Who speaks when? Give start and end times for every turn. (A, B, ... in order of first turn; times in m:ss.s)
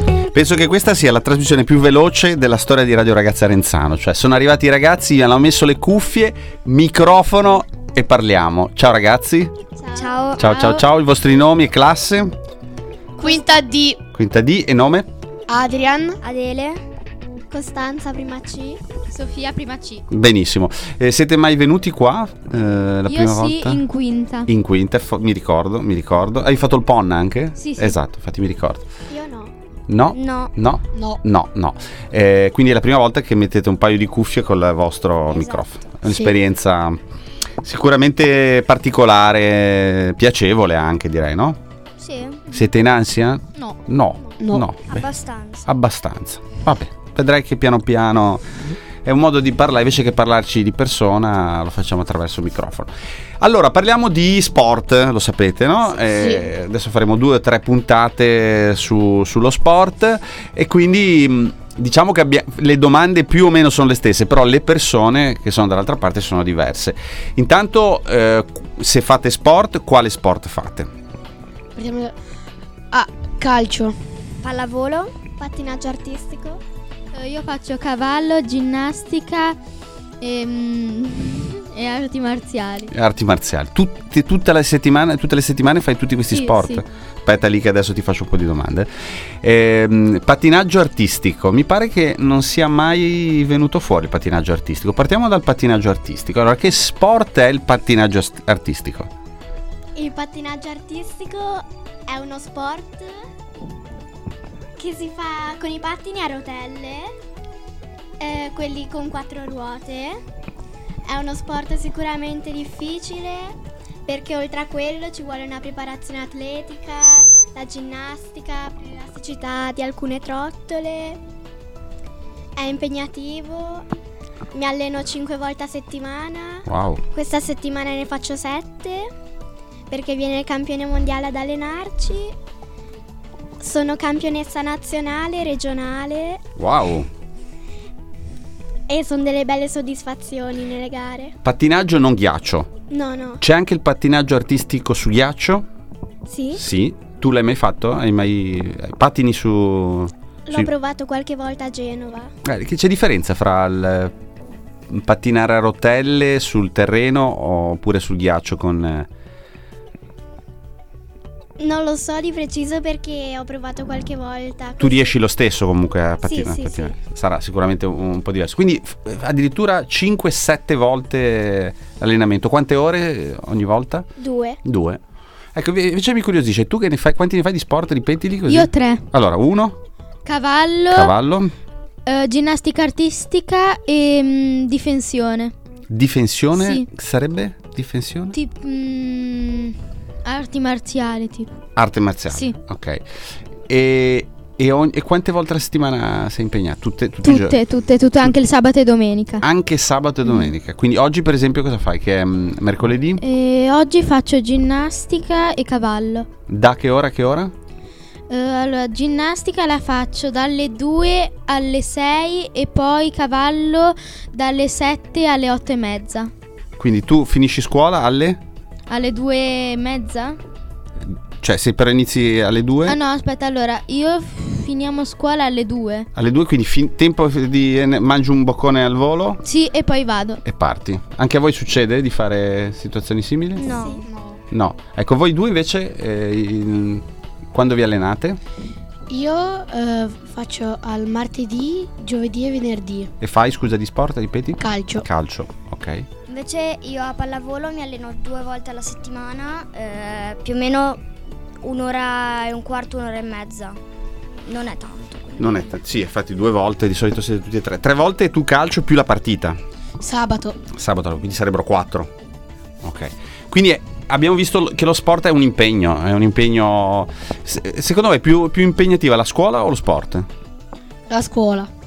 0:00.2-0:09.5 A
0:09.8-0:10.2 B
0:09.9-0:10.4 C
0:10.4-0:10.8 D
0:10.4-0:12.4 A
0:13.2-0:14.0 E
0:13.2-0:13.7 B
0:14.1-0:15.1 A
0:15.5-0:16.2 E
0:16.2-0:16.8 C
0:17.5-0:18.8 B
0:19.1-0:20.0 D
0:20.1-0:23.8 A
0:23.1-0:24.5 D
0:24.5-0:28.8 A
0:27.6-0:28.0 D
0:29.1-0:29.5 B
0:29.9-0:37.0 A
0:30.1-0:30.5 C
0:30.9-0:31.2 E
0:35.3-0:36.3 C
0:37.6-0:41.6 A
0:42.0-0:42.7 D
0:42.5-0:45.1 A
0:44.4-0:44.7 E
0:44.9-0:45.7 C
0:45.6-1:10.9 A
0:56.2-0:56.5 E
1:11.7-1:12.2 E
1:12.9-1:14.0 E
1:14.4-1:15.2 C
1:15.4-1:16.6 B
1:17.1-1:19.6 D
1:20.2-1:22.9 D
1:22.9-1:39.1 A
1:26.3-1:26.8 D
1:40.0-1:43.2 B
1:44.8-1:47.1 B
1:48.2-1:50.2 B
1:51.0-2:01.2 B
2:02.6-2:03.8 B
2:04.5-2:09.1 B
2:06.7-2:07.0 A
2:09.9-2:12.3 B
2:13.6-2:16.4 B
2:16.6-2:17.1 A
2:18.9-2:21.4 B
2:21.4-2:22.7 A
2:22.9-2:23.4 B
2:23.4-2:25.7 A
2:26.2-2:26.6 B
2:26.5-2:30.7 A
2:30.4-2:32.3 B
2:32.4-2:34.1 A
2:34.9-2:39.1 A
2:41.6-2:45.1 B
2:44.8-2:54.1 A
2:46.2-2:46.9 B
2:54.2-2:54.6 B
2:54.6-2:55.0 A
2:55.5-2:59.8 A
2:58.5-2:59.1 D
3:00.2-3:01.1 D
3:00.9-3:01.5 A
3:02.0-3:05.5 D
3:05.9-3:08.3 A
3:06.5-3:06.9 D
3:08.3-3:11.5 D
3:11.8-3:13.0 A
3:12.3-3:12.5 D
3:13.7-3:17.6 A
3:17.2-3:19.4 D
3:19.4-3:23.2 A
3:23.2-3:26.3 D
3:26.5-3:27.5 A
3:28.3-3:36.3 D
3:36.8-3:38.4 A
3:38.9-3:40.4 D
3:41.0-3:43.0 A
3:42.8-3:46.1 D
3:46.1-3:49.4 A
3:49.4-3:50.4 D
3:50.4-3:53.7 A
3:53.6-3:54.0 C
3:53.6-3:54.0 B
3:54.5-3:58.4 A
3:59.1-4:03.1 E
4:03.2-4:06.1 A
4:04.6-4:05.0 E
4:06.3-4:11.1 C
4:11.6-4:13.8 C
4:14.4-4:15.6 C
4:15.4-4:19.6 A
4:20.0-4:20.6 E
4:20.7-4:22.1 A
4:22.8-4:30.3 A
4:31.1-4:31.7 E